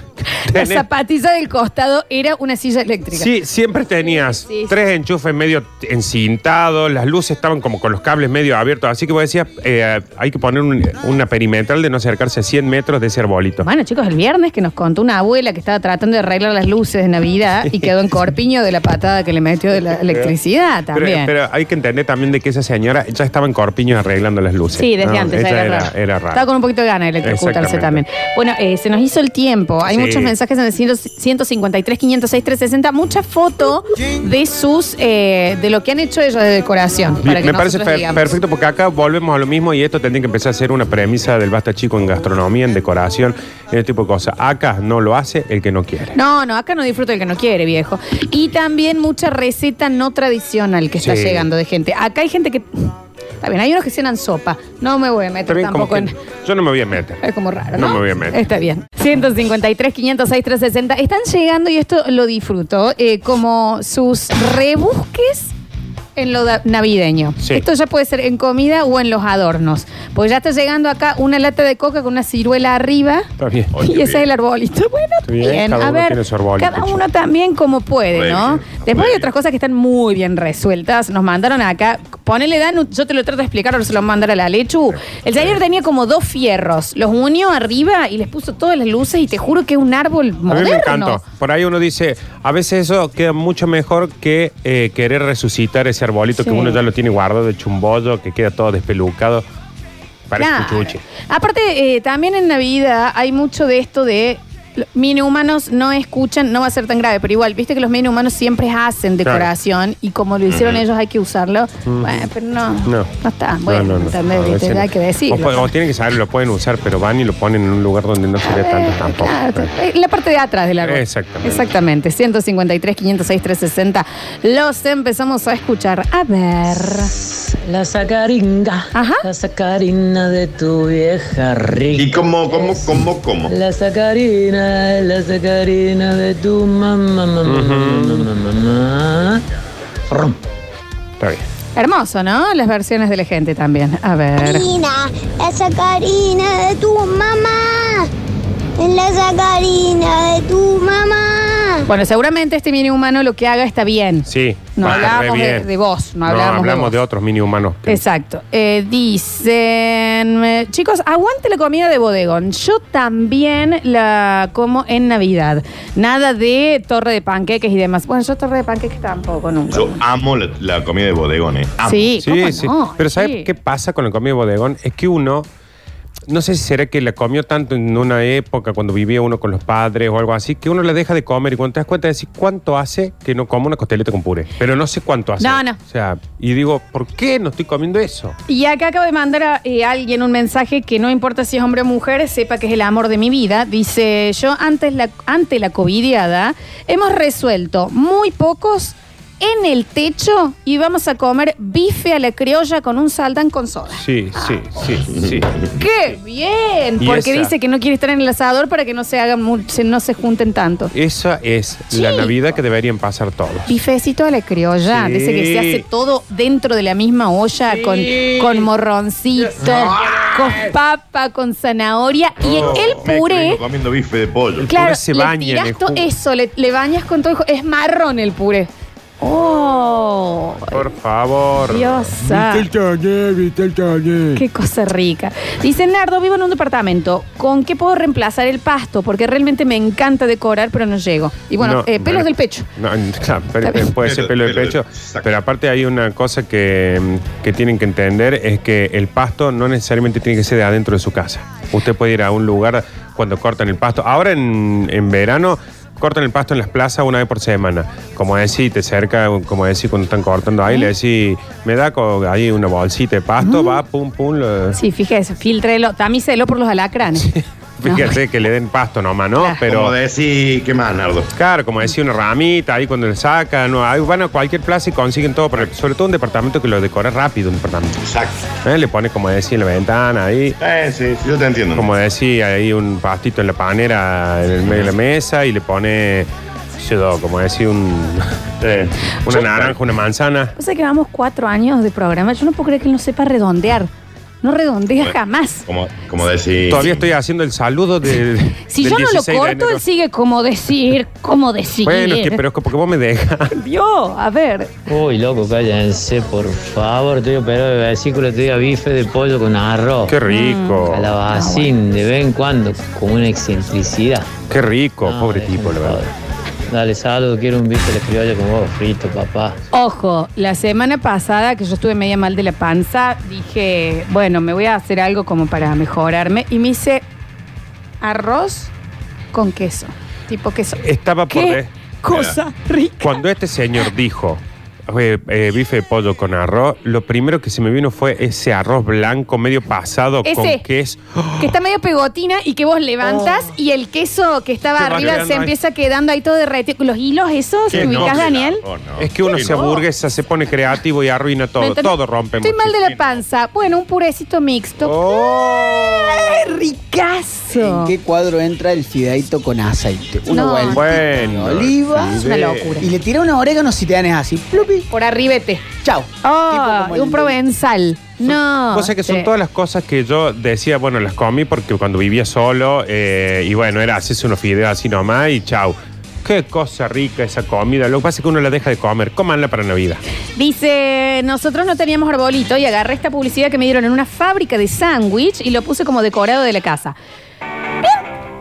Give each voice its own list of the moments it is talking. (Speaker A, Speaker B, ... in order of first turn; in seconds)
Speaker A: 0.3-3.3, 4.0-4.7, 13.6-21.3, 24.8-38.2, 46.1-56.1, 57.2-65.5, 66.2-73.3, 73.8-91.2, 96.4-96.8, 100.4-115.7, 118.4-127.1, 128.9-129.2, 141.8-144.7, 151.8-156.9, 157.9-170.0, 171.8-173.5, 185.4-185.8, 188.5-204.6, 205.8-210.9, 211.9-212.3, 213.7-223.6, 224.7-228.7, 229.2-230.8, 231.7-232.7, 234.3-242.7, 243.6-243.9, 263.4-263.8, 264.7-267.3, 267.9-268.2, 290.6-293.9, 294.4-295.7, 298.7-302.4, 303.5-304.7, 310.3-311.7, 319.7-327.1, 328.0-328.7, 329.3-333.2, 340.2-340.6, 341.4-348.6, 349.3-349.8, 351.6-357.9, 360.3-360.9, 362.2-362.9, 364.9-365.7, 366.2-369.3, 380.4-386.9
Speaker B: 0.3-0.8, 3.1-13.7, 20.9-26.4, 27.2-28.0, 29.9-30.3, 37.2-46.2, 51.0-51.5, 55.5-57.2, 57.8-58.5, 73.4-73.7, 75.3-77.0, 90.5-99.4, 100.3-101.0, 111.8-112.1, 113.7-119.7, 120.8-121.7, 137.4-138.3, 154.2-155.7, 156.2-158.0, 172.2-175.5, 176.3-188.3, 204.0-205.5, 207.0-207.5, 210.9-213.7, 214.8-215.8, 219.7-220.1, 222.4-223.1, 224.6-226.1, 230.7-234.4, 241.6-264.8, 267.1-269.9, 271.3-278.0, 278.6-280.6, 281.7-288.3, 289.2-290.5, 296.7-299.8, 301.8-303.5, 310.1-311.1, 314.5-316.0, 330.8-331.7, 333.0-341.5, 343.1-343.4, 344.8-345.5, 347.7-348.2, 349.0-352.7, 354.8-356.2, 360.7-362.8, 368.3-380.0
Speaker C: 73.7-74.2, 78.1-79.3, 110.5-110.8, 131.9-133.5, 169.7-172.1, 205.1-205.7, 222.5-224.7, 244.0-245.3, 269.7-271.3, 278.0-278.4, 280.6-281.9, 284.6-284.9, 288.6-289.8, 295.7-297.0, 332.1-332.4, 347.7-349.8, 352.8-353.2
Speaker D: 127.7-132.8, 133.5-139.4, 140.1-140.4, 304.9-310.2, 310.9-314.3, 315.0-316.1, 316.7-319.6
Speaker E: 144.4-148.1, 148.8-151.9
Speaker F: 357.5-364.9, 365.8-367.4